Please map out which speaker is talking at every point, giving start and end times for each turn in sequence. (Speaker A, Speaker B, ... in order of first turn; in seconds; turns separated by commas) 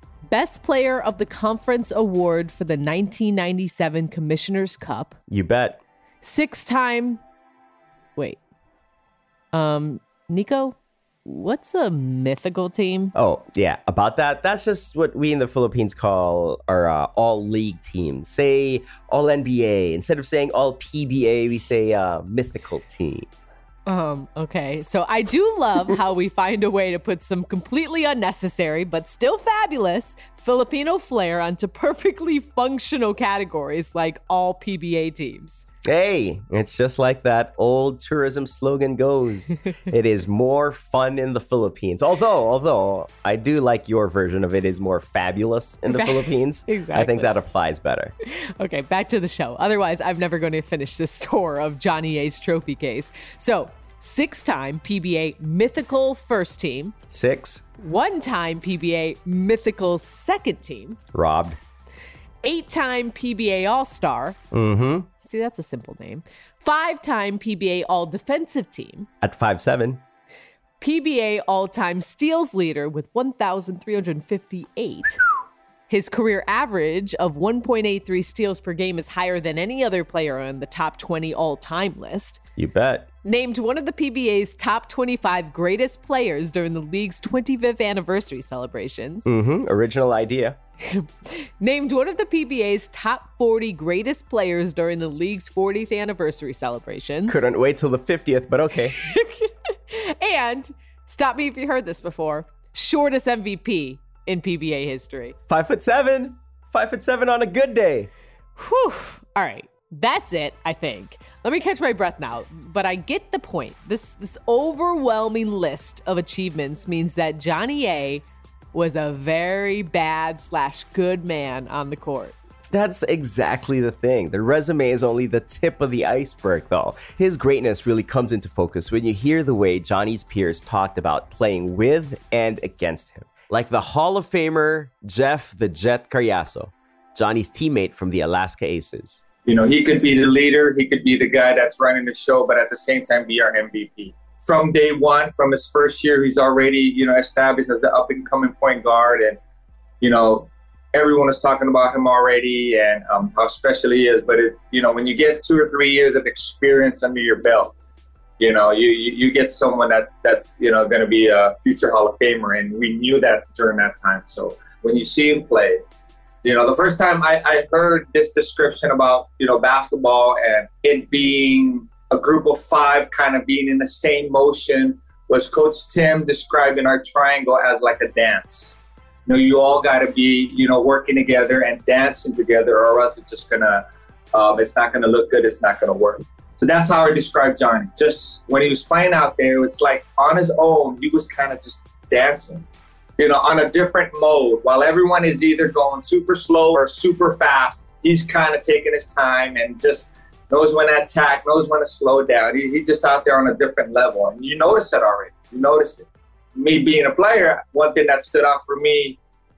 Speaker A: 0.3-5.2, Speaker B: 5.3-5.8, Speaker A: 6.2-7.2, Speaker A: 9.5-13.1, Speaker B: 13.1-23.3, Speaker A: 23.9-35.6, Speaker B: 35.9-48.1, Speaker A: 45.9-47.3, Speaker A: 48.3-57.0, Speaker B: 57.1-57.6, Speaker A: 57.8-61.0, Speaker B: 61.1-61.6, Speaker A: 62.4-64.4, Speaker B: 64.5-65.1, Speaker A: 65.2-69.1, Speaker B: 69.2-70.0, Speaker A: 70.8-75.2, Speaker A: 75.9-82.4, Speaker B: 82.6-83.1, Speaker A: 83.2-89.3, Speaker B: 89.2-90.6, Speaker A: 90.8-97.4, Speaker B: 97.3-98.9, Speaker A: 99.0-105.3, Speaker B: 105.5-108.1, Speaker A: 108.6-122.3, Speaker B: 122.7-139.2, Speaker C: 139.4-149.4, Speaker C: 150.0-157.7, Speaker C: 158.4-165.8, Speaker C: 166.4-192.7, Speaker C: 193.2-209.2